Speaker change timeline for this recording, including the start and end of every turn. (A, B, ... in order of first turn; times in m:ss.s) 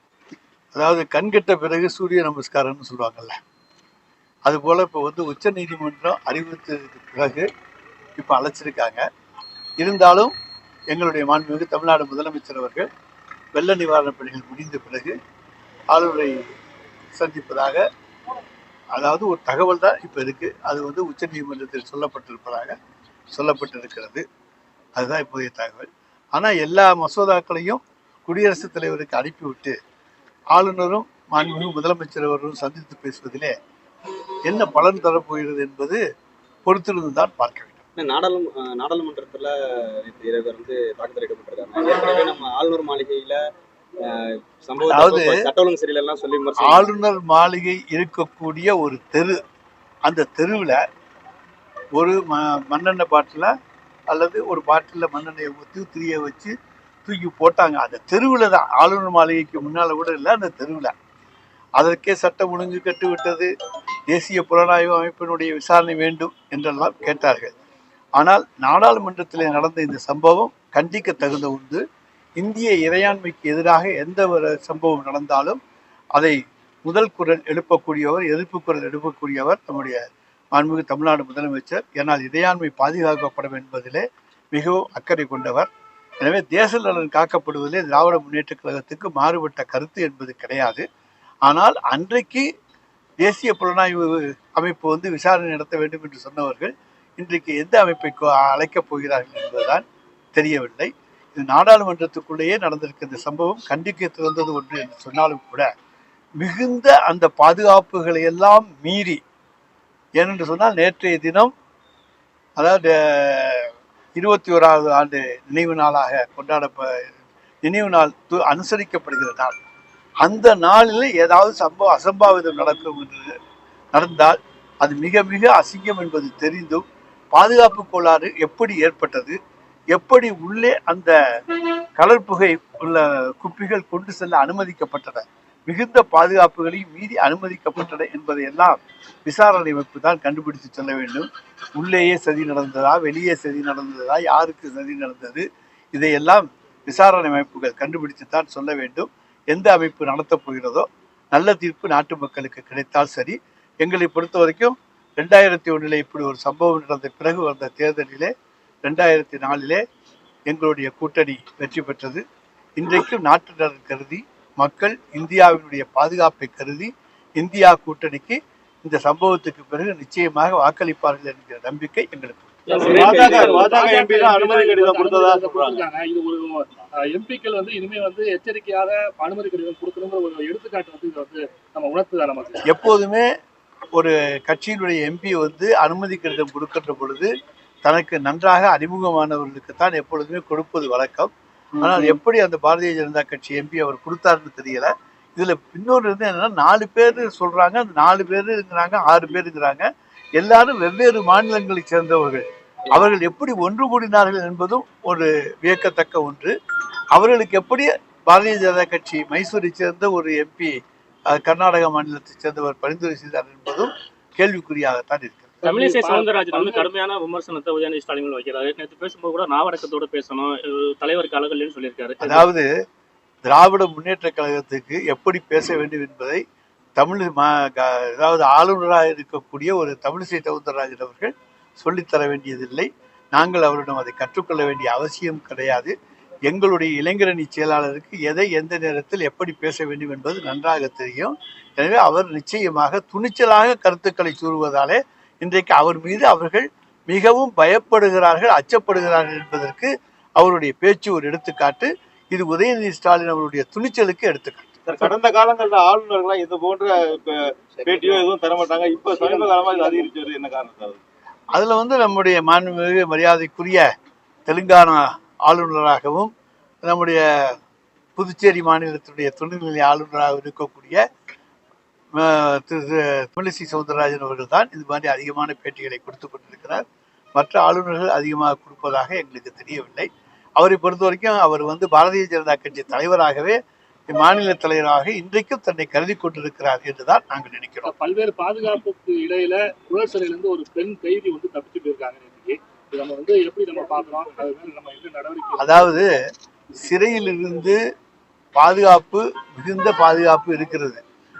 0:00.7-0:03.4 A
0:04.5-0:07.5 A
0:08.2-0:09.0 A
0:09.8-0:10.3 A
0:10.9-0:12.9 A
0:13.5-0:15.2 A
0:15.9-0:16.4 A
0:17.2-0:17.8 A
0:19.0-0:22.8 A
0:23.3-0:24.2 A
0:25.0-0:29.8 A
0:30.5-0:33.5 A
0:34.5-0:36.0 A
0:36.7-0:37.8 A
0:38.0-0:43.4 B
0:44.0-0:46.9 B
0:44.9-0:45.4 A
0:46.6-0:49.4 A
0:50.1-0:50.8 A
0:52.0-0:53.5 A
0:54.1-0:56.5 A
0:57.0-1:00.9 A
1:01.8-1:03.5 A
1:04.1-1:07.5 A
1:08.2-1:11.8 A
1:12.4-1:15.6 A
1:16.2-1:20.0 A
1:20.5-1:25.7 A
1:26.2-1:30.8 A
1:31.5-1:32.5 A
1:33.2-1:39.8 A
1:40.4-1:45.7 A
1:46.4-1:49.2 A
1:50.2-1:51.5 A
1:52.6-1:57.1 A
1:57.6-1:59.6 A
2:00.2-2:03.3 A
2:03.9-2:06.8 A
2:07.3-2:09.4 A
2:09.9-2:11.1 A
2:12.0-2:25.4 A
2:25.9-2:38.3 A
2:38.8-2:39.8 A
2:40.5-2:42.2 A
2:42.8-2:52.5 A
2:52.7-2:53.8 B
2:52.7-3:02.6 C
2:52.8-2:55.8 D
3:02.7-3:03.3 A
3:04.0-3:07.3 A
3:07.8-3:19.9 A
3:20.4-3:26.5 A
3:27.1-3:30.7 A
3:31.3-3:35.5 A
3:35.6-3:36.9 C
3:35.7-3:42.5 E
3:42.2-3:42.7 A
3:43.4-3:46.4 A
3:47.0-3:55.9 A
3:56.5-4:14.8 A
4:14.9-4:21.0 D
4:21.5-4:23.9 A
4:24.5-4:26.3 A
4:26.8-4:27.6 A
4:28.2-4:31.0 A
4:32.2-4:36.8 A
4:37.4-4:43.6 A
4:44.1-4:47.9 A
4:47.8-4:56.0 C
4:55.6-4:56.1 A
4:56.8-4:57.8 A
4:58.6-5:01.0 A